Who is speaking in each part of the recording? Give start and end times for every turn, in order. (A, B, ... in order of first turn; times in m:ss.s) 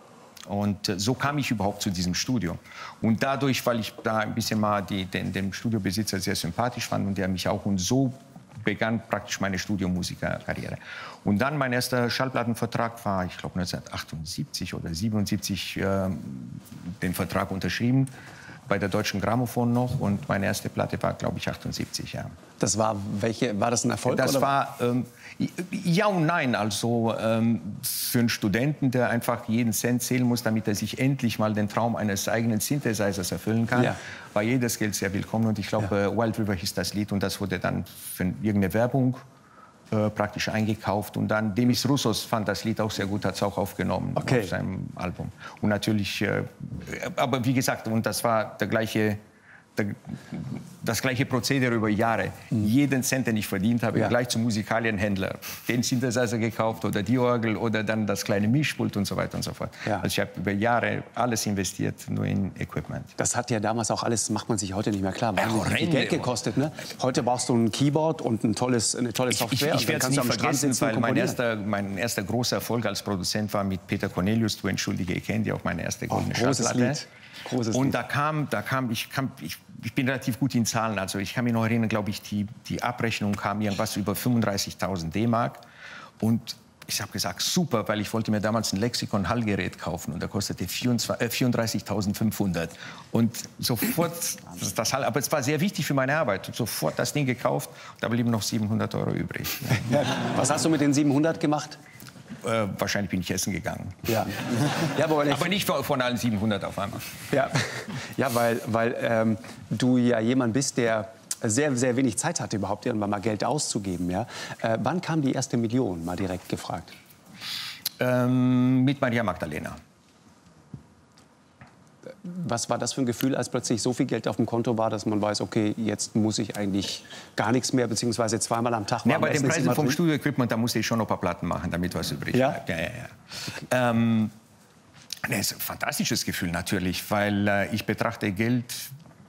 0:00.4-0:18.1 A
0:18.7-0:22.3 A
0:22.6-0:24.5 B
0:24.0-0:39.2 A
0:39.9-0:49.2 A
0:44.2-0:44.5 B
0:49.8-1:03.1 A
1:03.2-1:11.4 B
1:05.4-1:06.3 A
1:09.3-1:17.0 A
1:16.1-1:17.9 B
1:17.7-1:25.6 A
1:26.2-1:39.9 A
1:39.8-1:41.8 B
1:42.4-1:44.2 A
1:44.0-1:45.5 B
1:44.8-1:47.1 A
1:47.3-1:56.9 B
1:58.0-1:59.8 A
2:02.2-2:10.0 B
2:09.0-2:14.3 A
2:12.3-2:12.6 B
2:15.2-2:18.9 A